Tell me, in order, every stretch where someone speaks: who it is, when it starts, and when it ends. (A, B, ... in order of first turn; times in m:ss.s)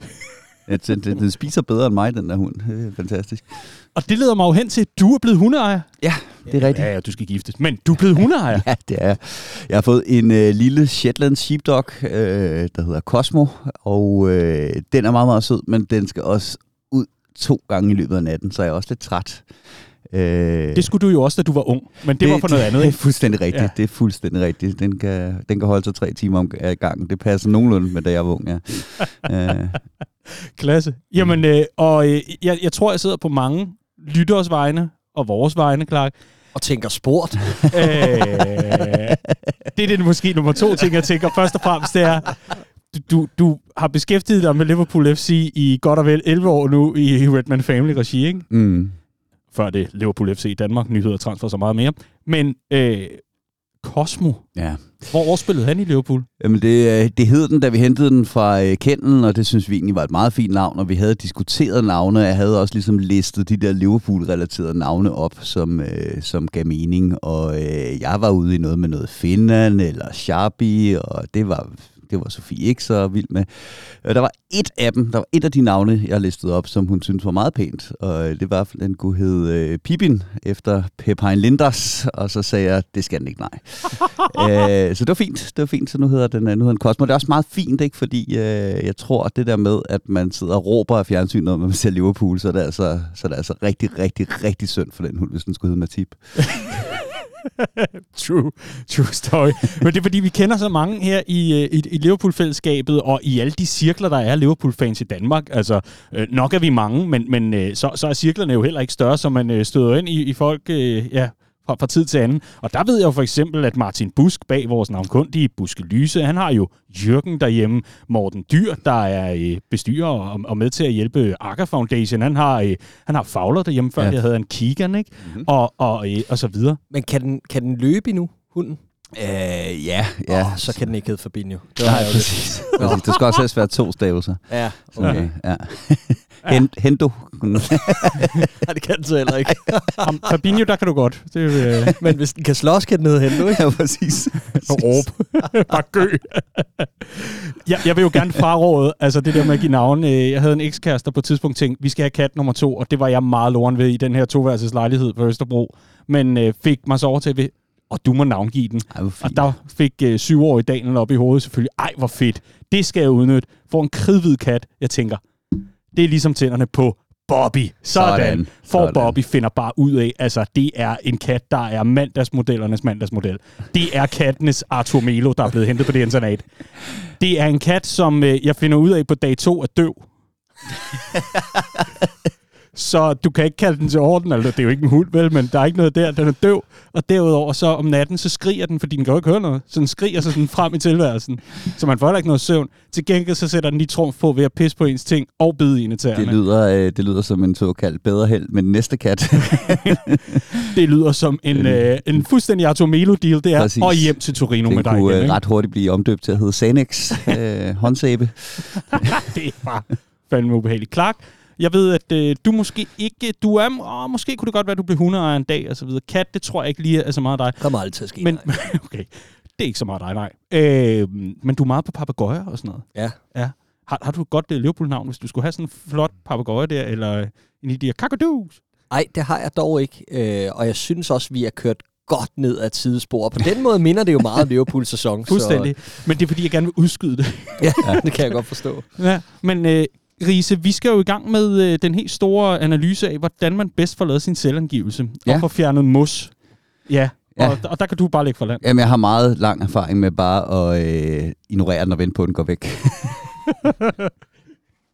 0:00.7-0:03.6 A
0:03.9-0:05.9 B
0:06.0-0:06.9 A
0:06.5-0:08.6 B
0:08.5-0:19.5 A
0:20.1-0:20.9 A
0:20.7-0:23.0 B
0:22.2-0:29.8 A
0:30.3-0:36.1 B
0:36.5-0:38.2 C
0:37.7-0:39.2 B
0:39.7-0:48.5 B
0:48.5-0:48.9 A
0:49.5-0:53.2 B
0:53.8-0:54.5 B
0:54.6-0:55.1 A
0:55.1-0:56.3 B
0:56.4-1:36.8 A
1:36.5-2:06.8 B
2:06.9-2:08.8 C
2:09.1-2:10.8 A
2:10.3-2:13.1 C
2:11.8-2:18.5 A
2:14.5-2:15.3 C
2:18.0-2:20.3 C
2:20.0-2:22.0 B
2:21.9-2:23.7 C
2:23.4-2:25.0 A
2:24.7-3:00.1 B
2:38.9-2:39.5 A
2:47.9-2:49.2 A
3:02.7-3:16.4 B
3:16.1-3:20.6 A
3:20.5-3:25.4 B
3:21.5-3:21.8 A
3:23.6-3:29.3 A
3:28.8-3:37.6 B
3:37.6-3:38.5 C
3:38.2-3:48.6 B
3:48.9-3:55.7 C
3:55.3-3:58.2 B
3:57.6-3:58.8 C
3:59.0-4:06.3 B
4:06.9-4:08.6 B
4:08.6-4:13.4 A
4:13.5-4:14.1 B